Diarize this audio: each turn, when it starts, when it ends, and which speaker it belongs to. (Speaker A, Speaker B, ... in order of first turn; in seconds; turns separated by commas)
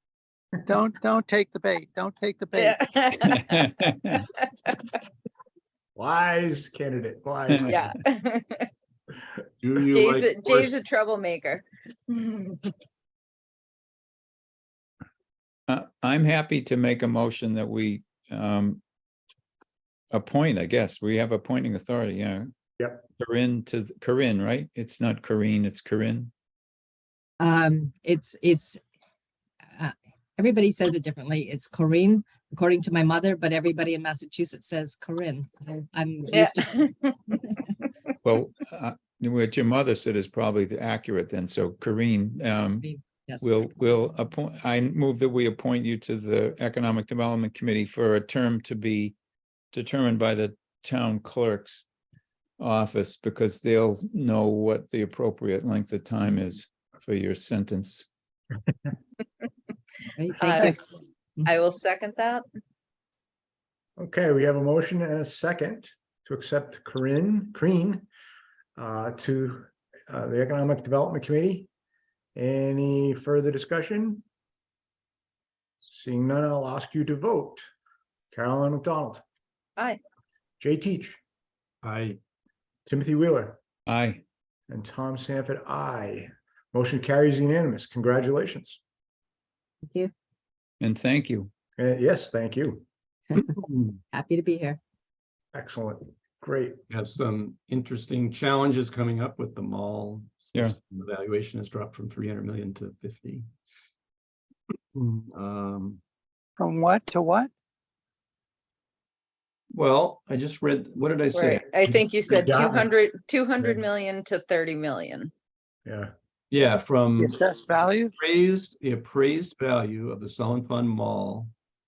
Speaker A: 0.7-2.8, Speaker B: 2.5-5.0, Speaker C: 3.3-4.2, Speaker D: 6.0-7.9, Speaker C: 7.5-7.8, Speaker B: 7.7-8.7, Speaker E: 9.6-10.8, Speaker B: 9.9-12.7, Speaker C: 15.7-18.8, Speaker C: 20.1-22.5, Speaker C: 23.2-26.3, Speaker F: 27.4-28.8, Speaker F: 29.8-36.9, Speaker B: 36.3-37.6, Speaker C: 38.2-42.9, Speaker F: 42.8-43.5, Speaker C: 43.4-49.2, Speaker C: 49.7-51.8, Speaker C: 52.6-58.1, Speaker F: 60.2-60.8, Speaker B: 60.4-60.8, Speaker B: 61.5-62.4, Speaker D: 64.0-68.1, Speaker D: 68.8-71.7, Speaker D: 72.4-74.2, Speaker D: 75.9-77.7, Speaker D: 78.3-79.2, Speaker D: 80.6-81.2, Speaker E: 81.8-82.2, Speaker D: 82.9-83.6, Speaker C: 83.9-84.2, Speaker D: 84.7-88.8, Speaker F: 89.8-90.1, Speaker C: 90.8-91.5, Speaker D: 91.8-92.8, Speaker E: 93.5-94.0, Speaker F: 94.1-94.8, Speaker D: 95.5-96.8, Speaker E: 96.9-103.5, Speaker E: 105.0-106.0, Speaker A: 106.6-107.5, Speaker E: 109.7-111.7, Speaker B: 111.3-115.3, Speaker D: 111.8-112.9, Speaker D: 115.9-116.1, Speaker E: 116.5-117.4, Speaker A: 117.2-118.1, Speaker E: 118.2-121.5